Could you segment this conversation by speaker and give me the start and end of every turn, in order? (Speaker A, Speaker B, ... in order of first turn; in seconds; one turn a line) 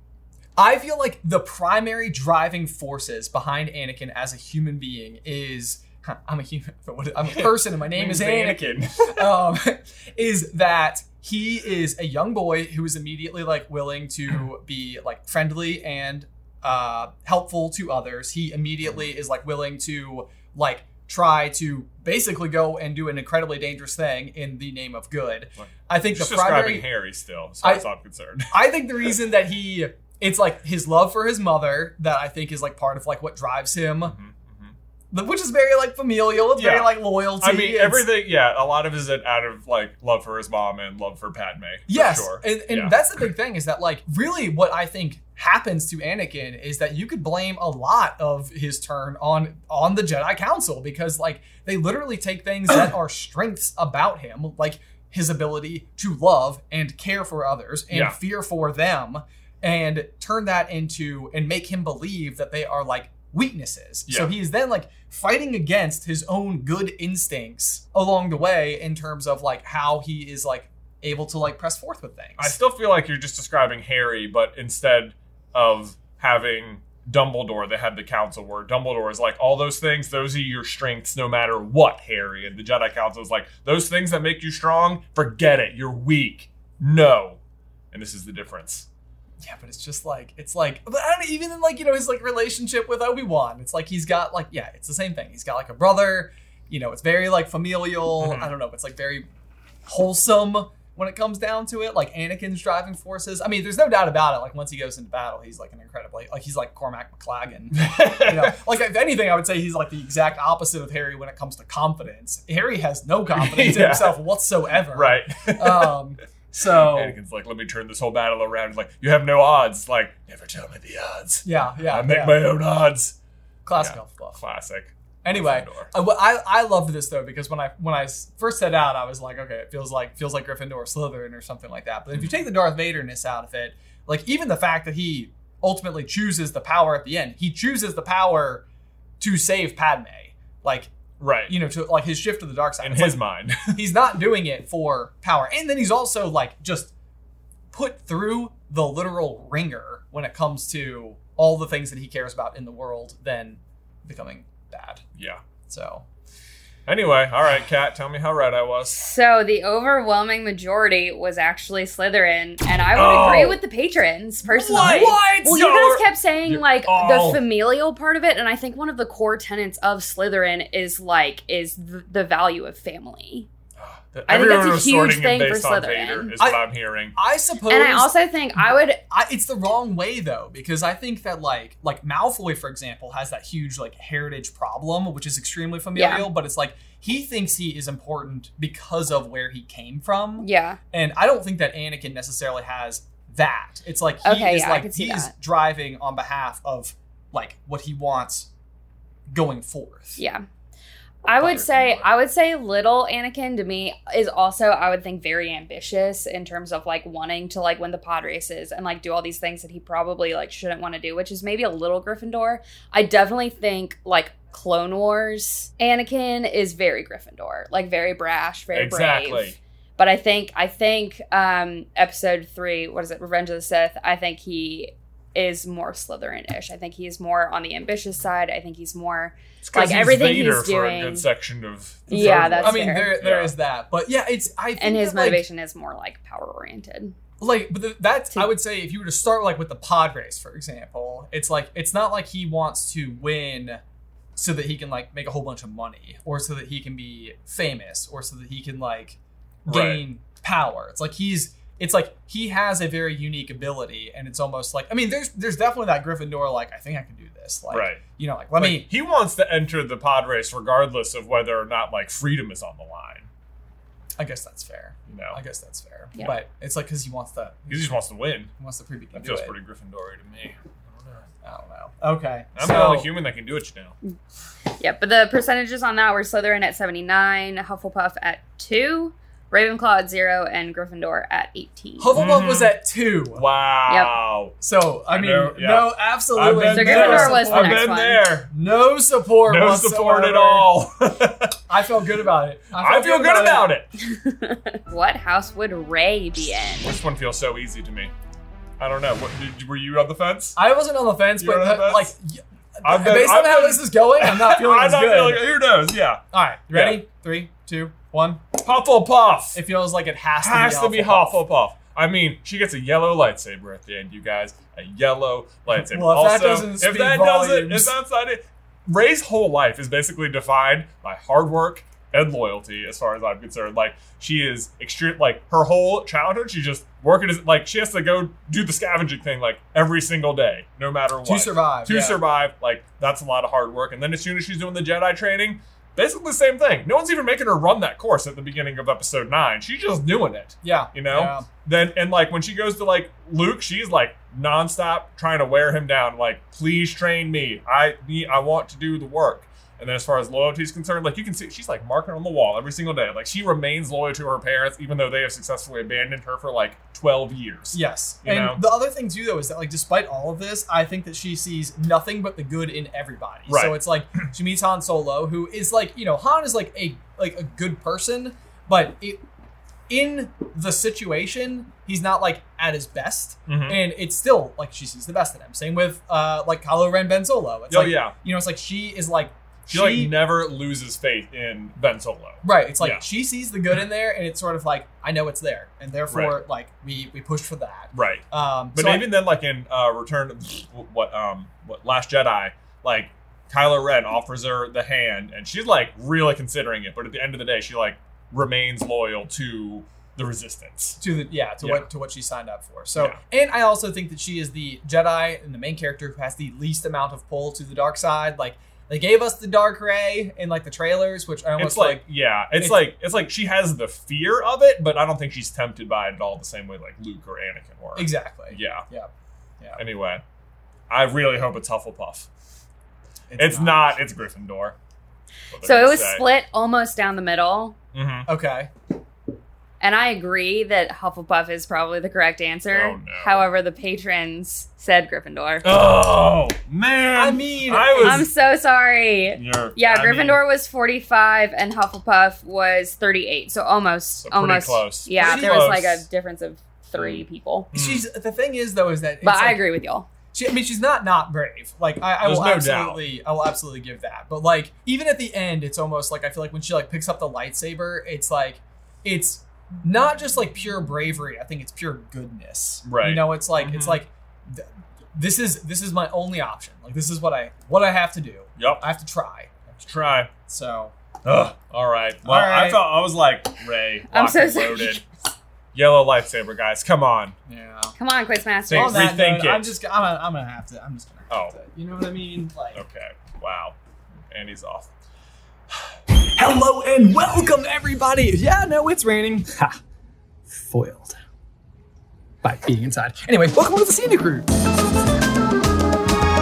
Speaker A: 0.6-26.9
Speaker B: 7.2-9.3
Speaker B: 25.6-29.1
Speaker A: 28.5-34.1
Speaker B: 34.0-34.7
Speaker A: 35.1-38.1
Speaker B: 36.5-43.0
Speaker A: 41.9-72.5
Speaker B: 57.9-58.2
Speaker B: 64.1-64.3
Speaker B: 72.4-87.4
Speaker B: 87.9-88.9
Speaker A: 89.4-99.3
Speaker B: 98.2-98.5
Speaker A: 99.8-117.2
Speaker B: 107.7-108.5
Speaker B: 113.3-114.2
Speaker B: 114.9-116.0
Speaker B: 116.6-123.2
Speaker A: 121.4-122.4
Speaker A: 123.6-124.4
Speaker B: 123.8-125.9
Speaker A: 125.2-138.6
Speaker A: 139.2-140.9
Speaker B: 141.2-141.5
Speaker A: 141.4-146.9
Speaker B: 142.8-143.8
Speaker A: 147.7-155.0
Speaker B: 155.1-155.4
Speaker A: 155.7-156.0
Speaker B: 156.8-159.0
Speaker C: 159.0-173.5
Speaker B: 162.9-163.6
Speaker B: 164.4-167.4
Speaker B: 173.8-177.1
Speaker C: 174.3-176.3
Speaker A: 176.4-178.1
Speaker C: 177.7-179.0
Speaker A: 179.1-198.5
Speaker C: 185.9-186.3
Speaker C: 190.4-190.8
Speaker C: 194.2-195.3
Speaker A: 199.3-200.2
Speaker C: 200.2-200.4
Speaker C: 201.2-231.3
Speaker A: 201.4-202.0
Speaker B: 201.5-201.8
Speaker B: 218.7-219.6
Speaker B: 229.6-233.5
Speaker C: 232.1-233.2
Speaker A: 232.1-235.4
Speaker C: 234.8-237.1
Speaker A: 237.4-243.8
Speaker A: 244.3-258.9
Speaker B: 249.7-250.0
Speaker B: 257.7-258.0
Speaker B: 258.5-263.3
Speaker A: 264.2-267.9
Speaker B: 265.1-265.4
Speaker B: 267.7-268.5
Speaker A: 268.6-269.5
Speaker B: 269.1-271.3
Speaker A: 271.4-273.1
Speaker B: 272.6-273.9
Speaker C: 274.8-282.1
Speaker A: 282.0-283.4
Speaker B: 282.1-282.7
Speaker B: 283.3-284.6
Speaker C: 283.9-284.1
Speaker A: 284.6-287.8
Speaker B: 285.1-288.5
Speaker C: 286.6-288.2
Speaker A: 288.5-290.7
Speaker B: 289.4-291.6
Speaker A: 291.7-293.7
Speaker B: 292.7-293.9
Speaker C: 294.0-297.0
Speaker B: 296.8-298.1
Speaker B: 298.8-300.6
Speaker A: 300.6-305.4
Speaker B: 301.4-302.1
Speaker B: 302.8-307.0
Speaker A: 306.3-308.4
Speaker B: 308.5-309.6
Speaker A: 309.5-311.4
Speaker B: 310.4-358.6
Speaker A: 315.7-317.9
Speaker A: 331.2-332.2
Speaker A: 340.6-341.5
Speaker A: 357.7-369.2
Speaker B: 363.5-363.8
Speaker A: 369.9-380.1
Speaker B: 373.5-373.8
Speaker B: 377.7-378.1
Speaker B: 379.7-383.1
Speaker A: 382.4-389.1
Speaker B: 386.1-386.4
Speaker B: 387.9-401.0
Speaker A: 401.0-412.8
Speaker B: 401.6-401.9
Speaker B: 411.6-418.9
Speaker A: 417.9-419.8
Speaker B: 419.8-420.2
Speaker B: 420.9-422.3
Speaker A: 423.3-424.0
Speaker B: 423.4-424.8
Speaker B: 425.5-426.2
Speaker C: 425.6-427.8
Speaker B: 427.9-428.3
Speaker A: 428.3-428.7
Speaker C: 429.8-435.7
Speaker B: 432.7-433.4
Speaker B: 435.6-438.3
Speaker A: 437.1-438.3
Speaker C: 438.0-447.7
Speaker B: 439.3-440.4
Speaker B: 444.2-446.1
Speaker A: 445.1-445.8
Speaker B: 446.9-448.1
Speaker A: 447.7-449.6
Speaker C: 449.2-450.1
Speaker A: 450.3-469.6
Speaker B: 452.2-453.0
Speaker B: 462.8-464.0
Speaker B: 468.6-468.8
Speaker B: 469.8-470.3
Speaker A: 470.4-470.9
Speaker B: 471.2-475.0
Speaker A: 472.2-472.9
Speaker C: 474.1-475.0
Speaker B: 475.7-477.3
Speaker A: 477.5-477.9
Speaker C: 478.0-479.1
Speaker B: 478.6-479.8
Speaker A: 478.7-482.8
Speaker B: 481.3-481.5
Speaker B: 482.7-483.8
Speaker B: 484.3-484.9
Speaker A: 486.2-489.8
Speaker A: 490.5-491.2
Speaker A: 492.4-494.5